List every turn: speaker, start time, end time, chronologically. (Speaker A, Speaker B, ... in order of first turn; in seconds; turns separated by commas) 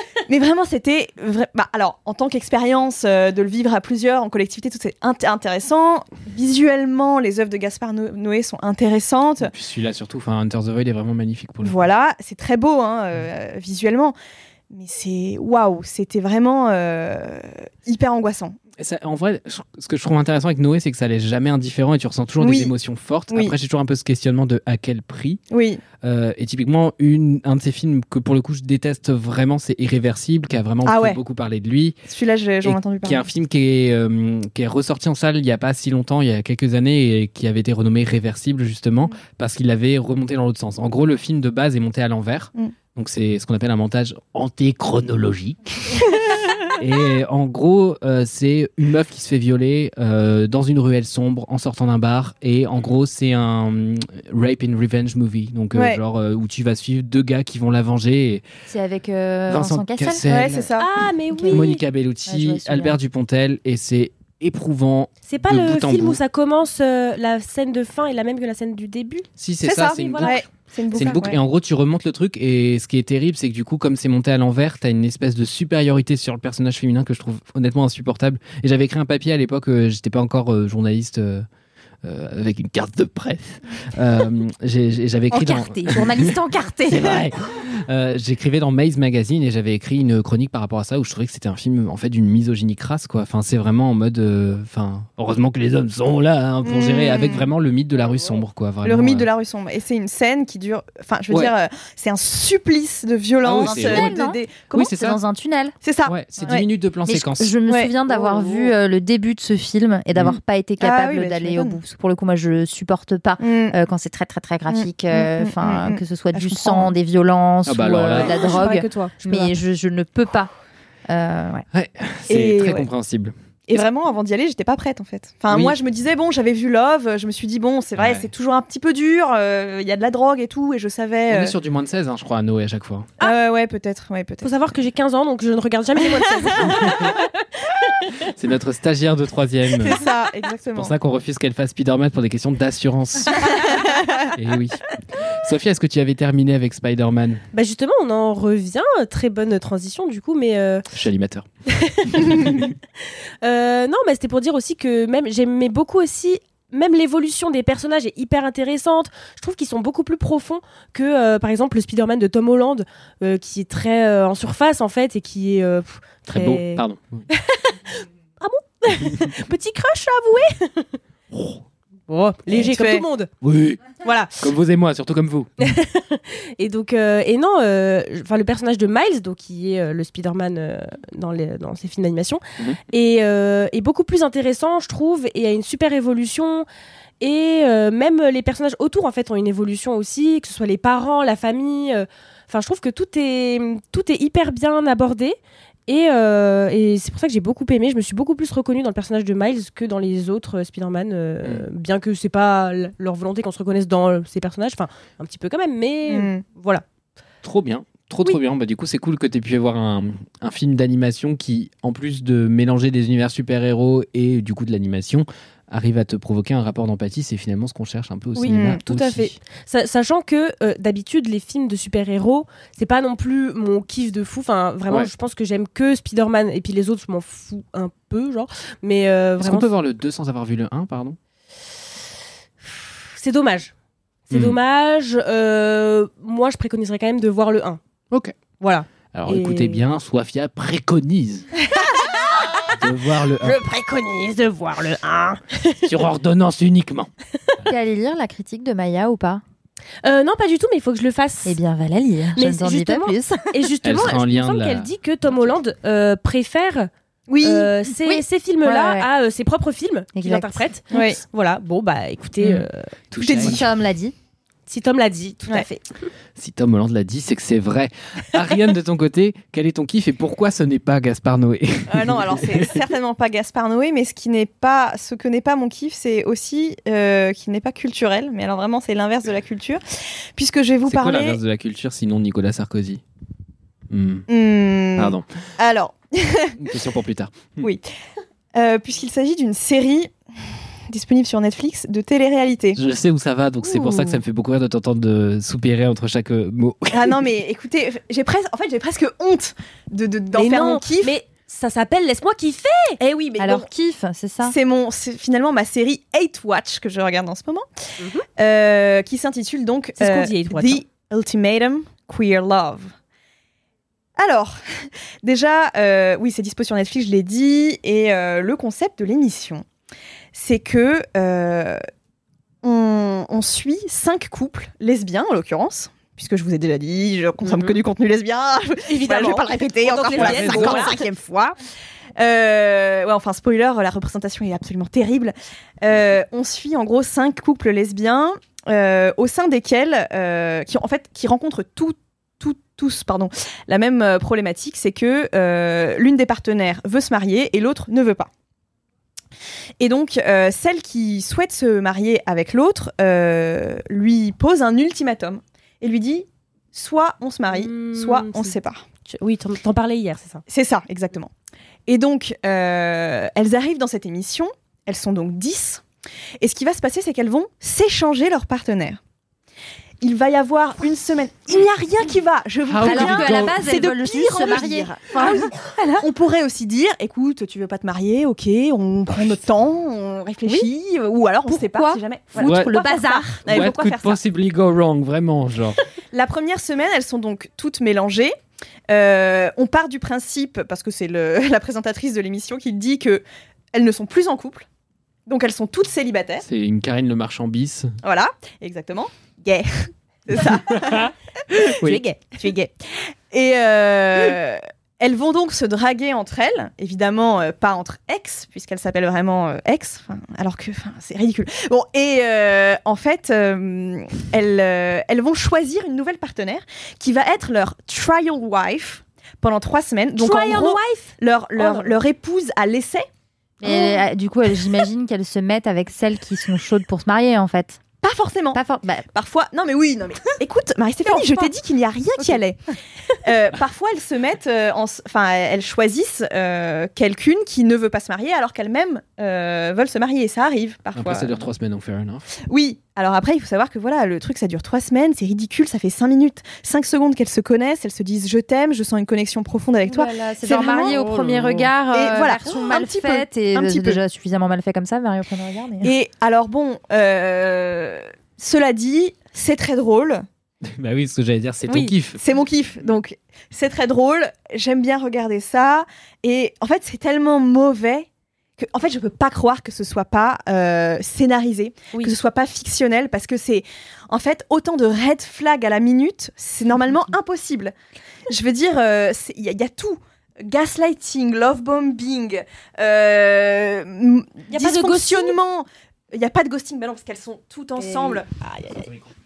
Speaker A: 0.3-9.5, Speaker B: 9.4-11.9, Speaker A: 11.6-14.2, Speaker A: 14.7-18.6, Speaker B: 18.8-25.4, Speaker A: 22.4-22.7, Speaker A: 25.5-25.8, Speaker B: 26.0-32.0, Speaker A: 30.9-31.2, Speaker A: 32.1-33.2, Speaker B: 32.6-46.0, Speaker B: 46.8-58.4, Speaker C: 58.7-60.2, Speaker B: 59.5-60.7, Speaker A: 60.2-60.9, Speaker D: 60.8-61.8, Speaker B: 61.5-66.2, Speaker C: 62.3-63.0, Speaker D: 65.3-69.3, Speaker B: 69.4-70.4, Speaker A: 69.6-71.4, Speaker D: 70.0-70.4, Speaker D: 70.9-71.2, Speaker B: 70.9-81.5, Speaker B: 82.0-99.3, Speaker C: 85.3-87.2, Speaker A: 96.6-97.5, Speaker A: 98.8-104.9, Speaker B: 103.4-104.1, Speaker C: 103.5-104.4, Speaker B: 104.7-105.2, Speaker C: 104.9-105.8, Speaker A: 105.8-106.7, Speaker B: 106.1-107.5, Speaker C: 107.1-120.5, Speaker A: 107.7-108.7, Speaker A: 110.8-111.8, Speaker A: 113.4-113.8, Speaker A: 114.7-116.8, Speaker B: 117.7-118.6, Speaker D: 118.2-119.5, Speaker C: 121.1-121.7, Speaker B: 121.7-123.8, Speaker A: 122.3-122.9, Speaker A: 123.7-131.5, Speaker B: 125.5-125.8, Speaker B: 128.0-128.3, Speaker B: 131.3-133.1, Speaker A: 133.2-134.5, Speaker D: 134.4-137.1, Speaker A: 136.4-136.7, Speaker B: 136.7-137.1, Speaker B: 138.3-140.0, Speaker A: 139.8-140.9, Speaker B: 140.8-143.5, Speaker A: 143.4-144.0, Speaker B: 144.3-147.4, Speaker D: 147.5-150.8, Speaker B: 150.9-151.5, Speaker D: 151.8-152.7, Speaker B: 152.2-152.7, Speaker D: 153.4-170.9, Speaker B: 166.3-167.3, Speaker B: 171.3-171.6, Speaker D: 172.1-173.3, Speaker A: 172.5-173.1, Speaker B: 173.4-173.8, Speaker D: 174.0-174.4, Speaker B: 174.4-175.5, Speaker D: 175.6-186.7, Speaker D: 187.2-206.8, Speaker A: 206.1-206.4, Speaker B: 207.4-219.3, Speaker D: 218.3-229.7, Speaker A: 218.5-218.8, Speaker B: 229.4-231.2, Speaker D: 232.6-233.7, Speaker D: 234.3-237.8, Speaker B: 234.3-234.6, Speaker B: 238.1-238.4, Speaker D: 238.6-239.9, Speaker B: 239.1-241.5, Speaker D: 241.8-242.8, Speaker B: 242.7-243.6, Speaker D: 243.4-245.9, Speaker B: 245.8-247.1, Speaker C: 247.7-249.4, Speaker D: 250.0-251.6, Speaker C: 251.4-253.5, Speaker D: 252.3-256.9, Speaker B: 253.8-255.6, Speaker A: 257.3-257.8, Speaker D: 257.4-263.0, Speaker C: 258.1-259.1, Speaker C: 260.1-260.6, Speaker A: 260.9-261.2, Speaker B: 263.1-263.6, Speaker A: 263.2-263.6, Speaker C: 263.4-264.1, Speaker D: 264.7-265.9, Speaker B: 266.4-272.8, Speaker A: 271.9-281.4, Speaker B: 280.9-283.0, Speaker B: 283.9-284.3, Speaker A: 284.3-286.6, Speaker B: 285.0-285.3, Speaker B: 286.6-287.7, Speaker A: 287.6-287.9, Speaker A: 288.5-290.1, Speaker A: 290.9-292.8, Speaker B: 292.8-297.2, Speaker A: 293.7-294.1, Speaker A: 296.9-301.1, Speaker D: 300.3-303.0, Speaker A: 303.0-303.7, Speaker C: 303.4-304.6, Speaker A: 304.4-307.7, Speaker D: 308.0-308.3, Speaker A: 308.4-312.9, Speaker D: 310.0-310.8, Speaker A: 314.2-319.6, Speaker A: 320.3-321.8, Speaker A: 322.6-331.6, Speaker D: 327.4-327.8, Speaker D: 328.9-331.0, Speaker B: 330.1-330.9, Speaker A: 332.2-348.3, Speaker A: 349.8-358.8, Speaker D: 357.5-358.6, Speaker D: 359.1-360.4, Speaker A: 360.5-361.3, Speaker A: 361.9-365.9, Speaker A: 366.4-369.0, Speaker A: 370.0-384.2, Speaker B: 372.7-373.6, Speaker C: 372.8-376.1, Speaker C: 381.5-383.4, Speaker B: 382.4-382.7, Speaker B: 383.5-385.8, Speaker A: 386.1-388.4, Speaker A: 388.9-394.7, Speaker A: 395.3-396.4, Speaker B: 396.4-398.0, Speaker A: 398.0-423.1, Speaker B: 400.8-402.0, Speaker D: 420.2-422.0, Speaker C: 423.6-427.8, Speaker A: 423.7-423.9, Speaker A: 428.0-428.6, Speaker C: 428.6-429.1, Speaker A: 429.1-432.6, Speaker C: 431.1-431.5, Speaker A: 433.2-441.4, Speaker B: 440.9-442.3, Speaker A: 442.5-451.0, Speaker C: 449.9-455.9, Speaker B: 450.9-451.7, Speaker A: 451.9-454.0, Speaker A: 455.8-460.2, Speaker B: 460.7-462.2, Speaker D: 461.7-461.9, Speaker A: 462.2-477.7, Speaker A: 478.3-488.3, Speaker D: 484.5-485.4, Speaker D: 487.8-488.9